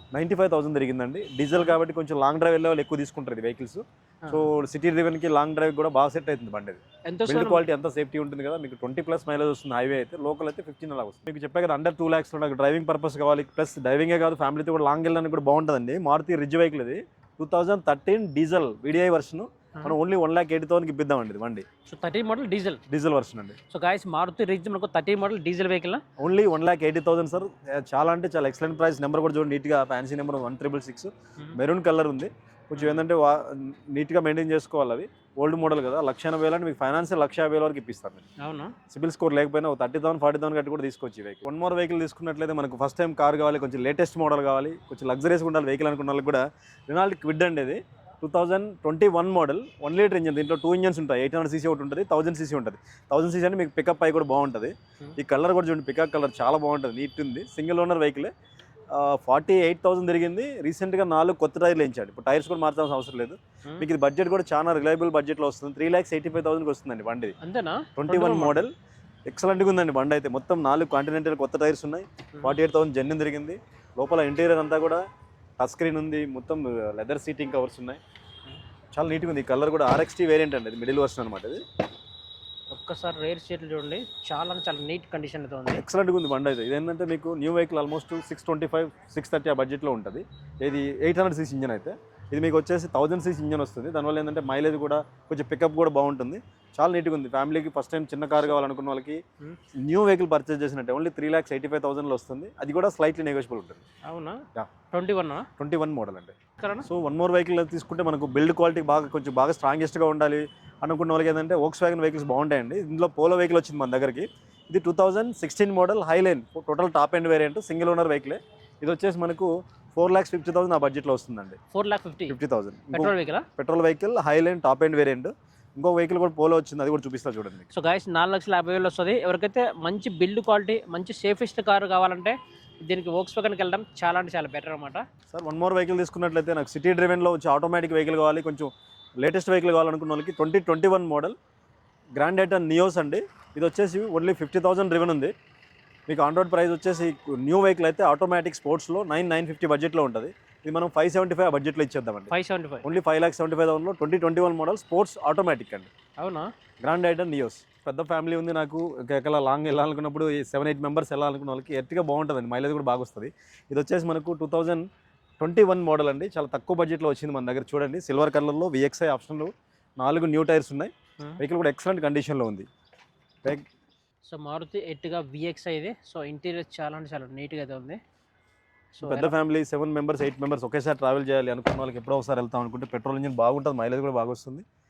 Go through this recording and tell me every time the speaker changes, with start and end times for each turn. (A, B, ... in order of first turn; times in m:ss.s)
0:00.1-0:21.6 A
0:04.2-0:04.5 B
0:07.1-0:07.6 B
0:21.8-0:22.8 B
0:22.9-0:23.6 A
0:23.7-0:26.0 B
0:26.2-0:38.2 A
0:32.8-0:33.0 B
0:38.4-0:38.8 B
0:38.9-0:58.3 A
0:58.9-1:07.3 A
1:07.4-1:08.6 B
1:08.0-1:08.7 A
1:09.3-1:15.0 A
1:15.6-1:18.0 A
1:18.9-1:21.6 A
1:22.7-1:25.8 B
1:25.7-1:39.2 A
1:39.8-1:43.8 A
1:44.0-1:45.5 B
1:45.6-2:01.6 A
1:46.6-1:46.9 B
2:01.7-2:02.4 B
2:02.3-2:07.7 A
2:02.9-2:03.5 B
2:07.7-2:15.0 B
2:15.3-2:21.4 A
2:22.2-2:25.3 A
2:26.1-2:32.3 A
2:32.3-2:32.8 B
2:32.8-2:35.9 A
2:36.2-2:36.5 B
2:36.8-2:44.8 A
2:45.4-2:52.7 A
2:54.3-2:58.0 B
2:59.0-2:59.3 B
2:59.0-3:04.6 A